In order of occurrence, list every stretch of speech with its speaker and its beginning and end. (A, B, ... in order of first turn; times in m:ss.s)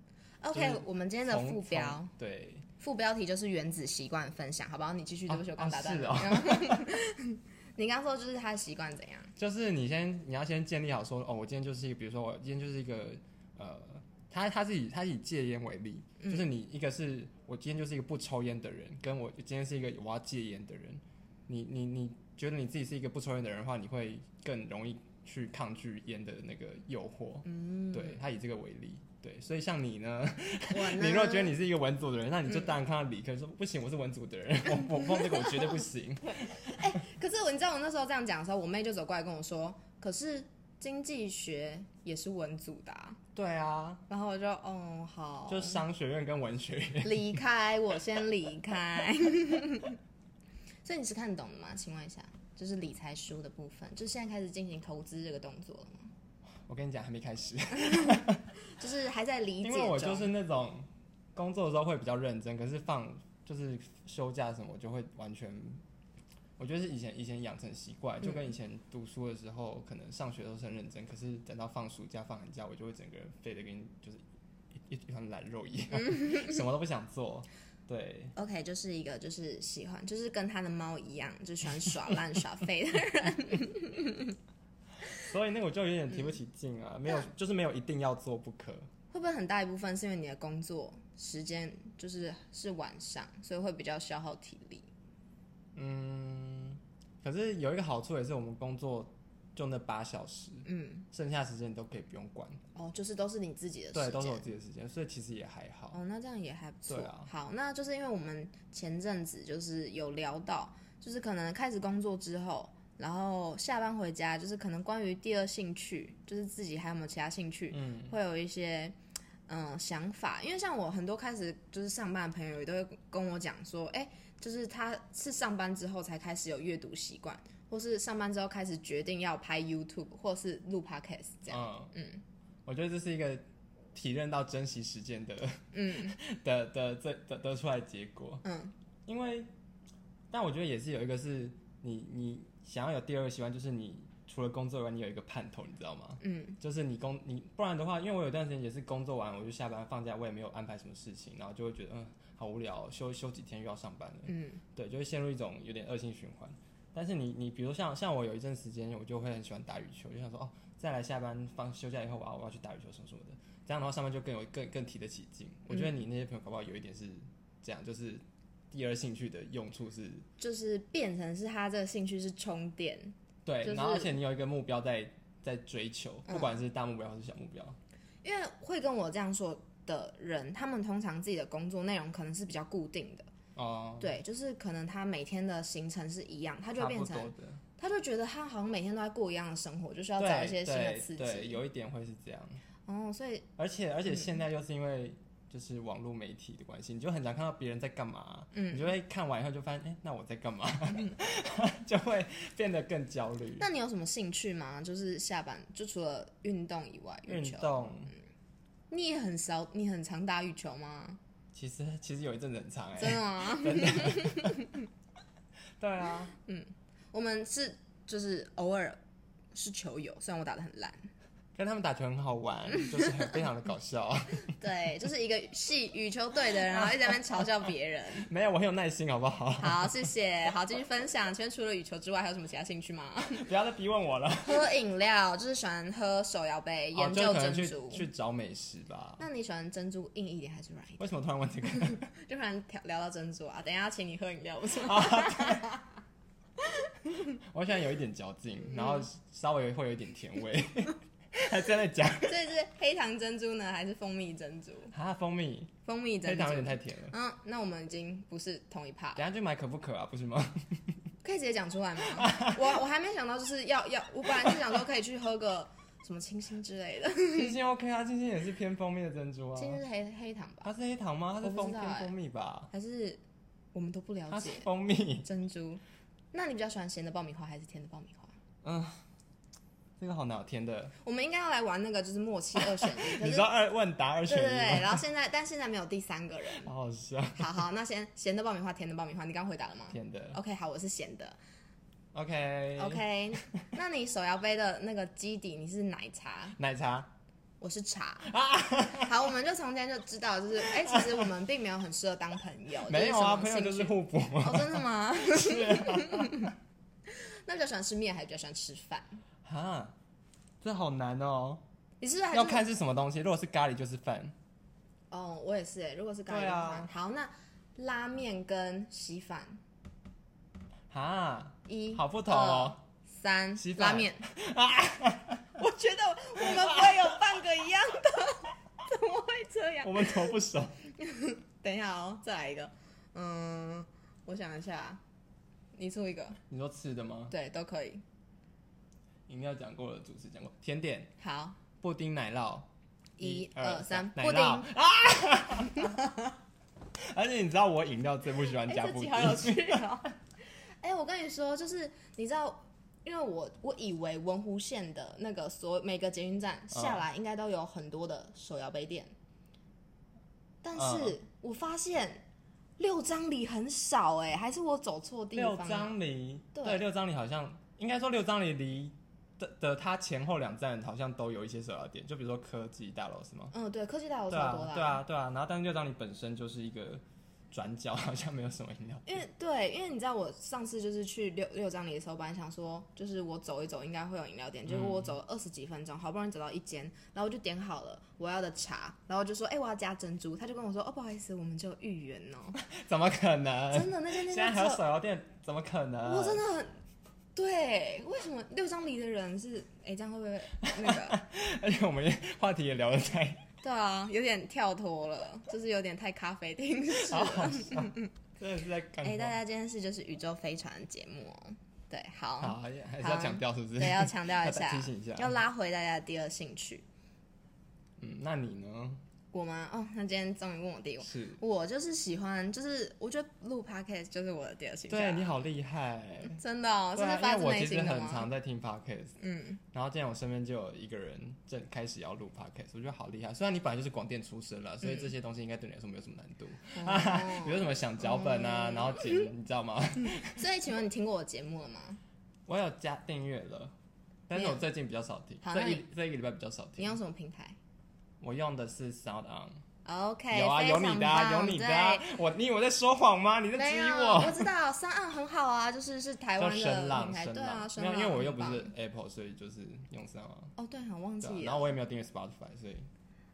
0:00.4-0:02.1 A
0:00.5-0:02.6 B
0:02.8-0:09.3 A
0:05.3-0:06.9 B
0:09.4-0:37.0 B
0:16.2-0:16.5 A
0:27.4-0:28.2 A
0:30.7-0:31.6 A
0:35.0-0:35.8 A
0:36.4-0:43.2 A
0:43.3-0:44.0 B
0:44.1-0:45.8 A
0:45.5-0:47.4 B
0:47.0-0:50.0 A
0:50.8-0:56.1 A
0:56.7-0:58.5 B
0:57.8-0:58.2 A
0:58.7-1:00.3 A
0:59.6-1:05.8 B
1:06.6-1:14.2 B
1:14.7-1:18.3 B
1:18.4-1:24.4 A
1:25.1-1:28.9 B
1:29.1-1:34.9 A
1:35.7-1:42.6 B
1:40.6-1:41.0 A
1:42.7-1:44.5 A
1:43.9-1:46.0 B
1:45.9-1:58.9 A
1:46.9-1:47.3 B
1:57.7-1:58.1 B
1:59.5-2:12.2 A
2:11.5-2:11.9 B
2:12.6-2:18.4 B
2:15.7-2:16.2 A
2:18.4-2:18.7 A
2:19.0-2:19.5 B
2:20.3-2:50.3 B
2:26.2-2:26.6 A
2:34.3-2:34.6 A
2:50.4-2:54.1 A
2:53.4-2:57.8 B
2:56.3-2:56.6 A
2:58.2-3:03.3 A
3:03.6-3:04.1 B
3:04.0-3:11.6 A
3:06.8-3:07.6 B
3:10.2-3:12.6 B
3:12.9-3:13.5 A
3:13.6-3:23.6 B
3:18.5-3:18.9 A
3:23.6-3:27.8 A
3:27.3-3:28.1 B
3:28.9-3:31.2 A
3:31.5-3:34.6 B
3:33.0-3:34.8 A
3:35.8-3:36.3 B
3:36.5-3:39.0 A
3:39.5-3:41.1 A
3:41.5-3:44.5 B
3:44.5-3:48.3 A
3:48.2-3:50.1 B
3:49.6-3:53.5 A
3:53.3-3:54.6 B
3:54.4-3:58.0 A
3:56.9-3:59.2 B
3:59.2-4:01.1 A
4:01.0-4:02.0 B
4:01.6-4:05.9 A
4:04.8-4:05.7 B
4:07.2-4:12.4 B
4:08.7-4:09.0 A
4:12.2-4:14.9 A
4:14.9-4:15.7 B
4:15.8-4:19.2 A
4:16.2-4:17.1 B
4:19.2-4:21.0 B
4:21.2-4:27.6 A
4:22.1-4:22.6 B
4:27.3-4:29.8 B
4:29.6-4:30.7 A
4:30.6-4:32.7 B
4:31.4-4:32.1 A
4:32.7-4:33.2 A
4:33.7-4:34.7 A
4:34.3-4:35.3 B
4:35.2-4:35.8 A
4:36.3-4:38.4 A
4:38.6-4:39.0 B
4:40.0-4:40.9 B
4:41.0-4:43.5 A
4:42.6-4:45.0 B
4:44.3-4:46.7 A
4:46.6-4:47.6 B
4:47.4-4:51.4 A
4:49.9-4:50.4 B
4:52.1-4:53.6 B
4:52.8-4:56.6 A
4:56.6-4:57.1 B
4:57.6-4:58.3 A
4:58.2-4:59.2 B
4:58.9-5:06.5 A
5:00.6-5:01.3 B
5:02.8-5:06.5 B
5:07.1-5:09.2 A
5:09.4-5:09.9 B
5:10.6-5:11.6 B
5:12.0-5:12.6 A
5:12.3-5:14.3 B
5:15.1-5:19.6 A
5:16.3-5:16.9 B
5:20.9-5:22.8 B
5:21.7-5:24.2 A
5:23.6-5:25.6 B
5:25.6-5:30.3 A
5:26.4-5:27.2 B
5:29.8-5:30.8 B
5:31.0-5:35.0 A
5:35.7-5:36.4 A
5:36.5-5:37.3 B
5:37.3-5:38.0 A
5:39.3-5:41.1 B
5:41.2-5:41.6 A
5:41.8-5:42.7 B
5:43.2-5:44.7 A
5:43.2-5:45.9 B
5:45.4-5:46.3 A
5:47.0-5:49.8 B
5:48.6-5:50.2 A
5:50.8-5:59.1 A
5:56.7-5:57.0 B
6:00.6-6:02.2 A
6:00.7-6:01.2 B
6:02.8-6:05.9 A
6:05.3-6:13.5 B
6:06.5-6:06.8 A
6:13.5-6:15.0 A
6:14.3-6:19.2 B
6:19.1-6:32.6 A
6:24.7-6:25.1 B
6:32.6-6:36.4 B
6:33.7-6:34.8 A
6:36.0-6:36.7 A
6:37.3-6:41.2 A
6:40.6-6:43.4 B
6:43.6-6:48.1 A
6:46.9-6:49.4 B
6:49.0-6:56.8 A
6:52.4-6:55.4 B
6:58.0-6:59.0 B
6:59.3-7:05.3 A
7:01.0-7:01.4 B
7:04.9-7:06.4 B
7:06.2-7:08.3 A
7:06.9-7:09.2 B
7:09.2-7:09.6 A
7:09.7-7:20.4 B
7:14.8-7:15.1 A
7:16.7-7:19.3 A
7:20.2-7:22.0 A
7:22.5-7:23.7 B
7:24.3-7:27.0 B
7:24.4-7:24.6 A
7:25.4-7:25.8 A
7:26.8-7:27.6 A
7:28.2-7:29.6 B
7:29.8-7:32.1 A
7:30.3-7:34.5 B
7:33.5-7:38.7 A
7:36.4-7:40.5 B
7:40.6-7:41.7 A
7:41.2-7:42.9 B